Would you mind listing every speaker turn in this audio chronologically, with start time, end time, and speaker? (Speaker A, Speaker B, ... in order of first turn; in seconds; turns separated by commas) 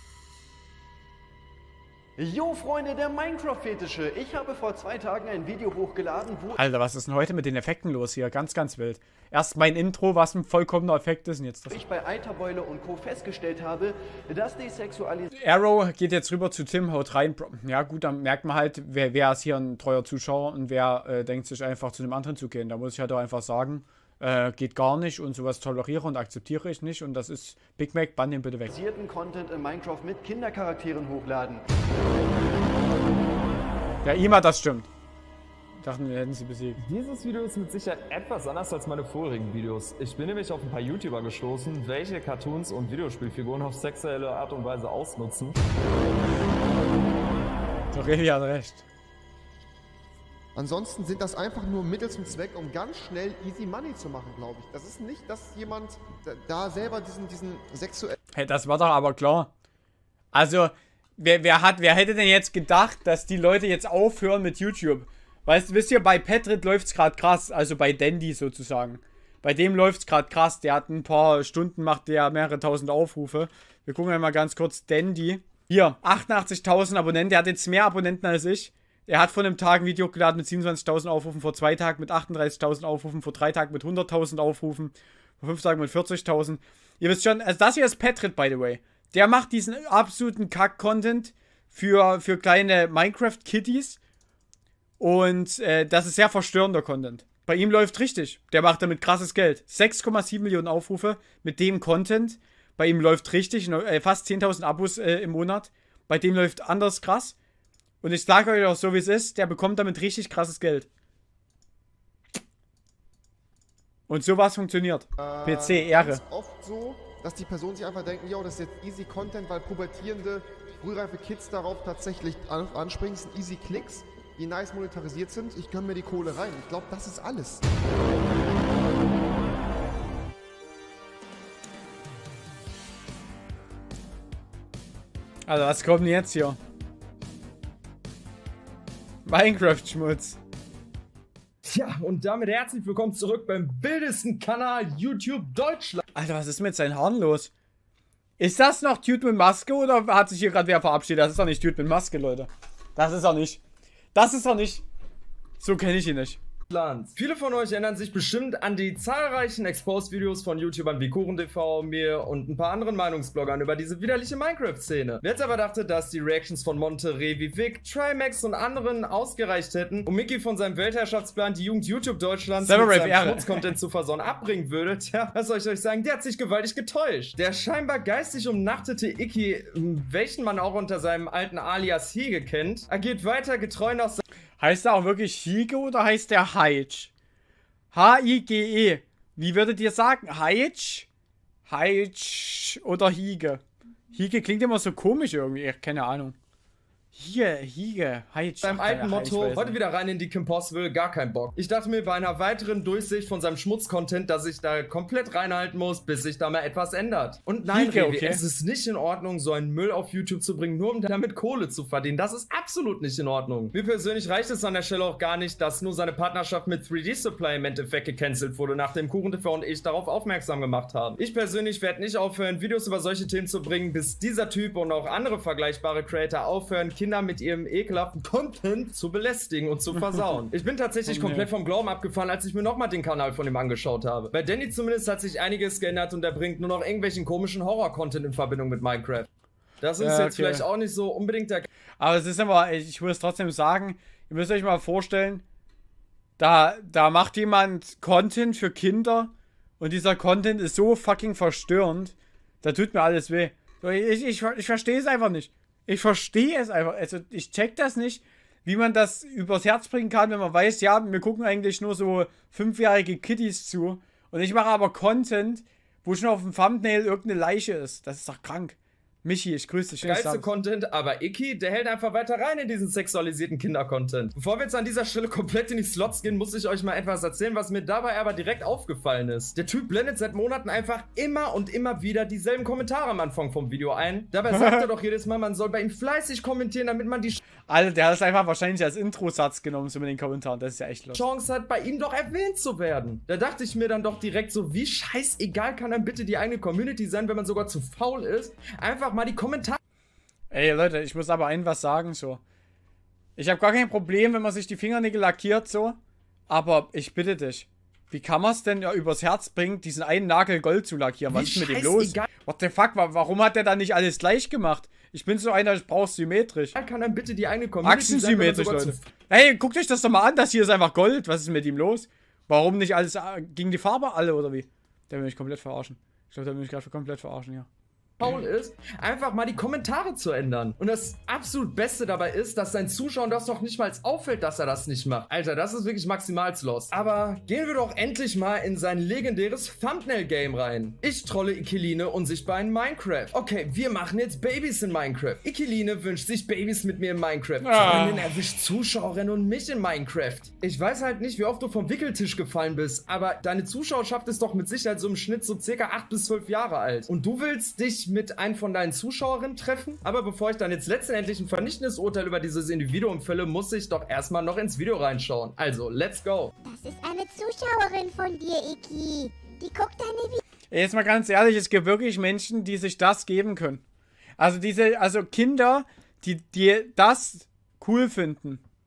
Speaker A: 2.2-6.6, Speaker B: 6.6-11.8, Speaker A: 11.7-15.3, Speaker B: 15.3-28.7, Speaker A: 28.7-31.6, Speaker B: 34.0-34.9, Speaker B: 35.8-36.8, Speaker C: 36.8-45.5, Speaker B: 47.9-48.8, Speaker D: 50.5-58.2, Speaker B: 58.3-59.5, Speaker B: 60.3-94.0, Speaker B: 95.0-107.3, Speaker B: 108.0-110.9, Speaker B: 114.1-116.2, Speaker D: 115.2-127.6, Speaker B: 135.5-136.6, Speaker B: 139.2-140.4, Speaker C: 141.6-146.0, Speaker B: 146.1-147.5, Speaker B: 148.4-153.6, Speaker B: 154.1-154.8, Speaker B: 155.6-156.4, Speaker C: 156.7-184.2, Speaker B: 172.6-173.7, Speaker B: 184.6-187.1, Speaker B: 187.9-191.1, Speaker B: 191.7-193.6, Speaker B: 194.1-196.3, Speaker B: 197.1-199.8, Speaker C: 198.6-239.3, Speaker B: 207.7-208.4, Speaker B: 231.1-231.5, Speaker C: 239.8-241.7, Speaker B: 240.0-240.7, Speaker B: 242.0-245.4, Speaker B: 246.4-270.5, Speaker C: 270.0-287.4, Speaker B: 287.6-291.2, Speaker C: 291.1-299.8, Speaker B: 300.5-302.4, Speaker B: 303.4-306.0, Speaker B: 306.5-316.7, Speaker C: 311.3-312.2, Speaker C: 316.7-319.0, Speaker B: 317.8-327.7, Speaker C: 328.2-366.5, Speaker B: 347.6-348.3, Speaker E: 366.6-370.4, Speaker B: 370.7-373.8, Speaker B: 374.4-378.6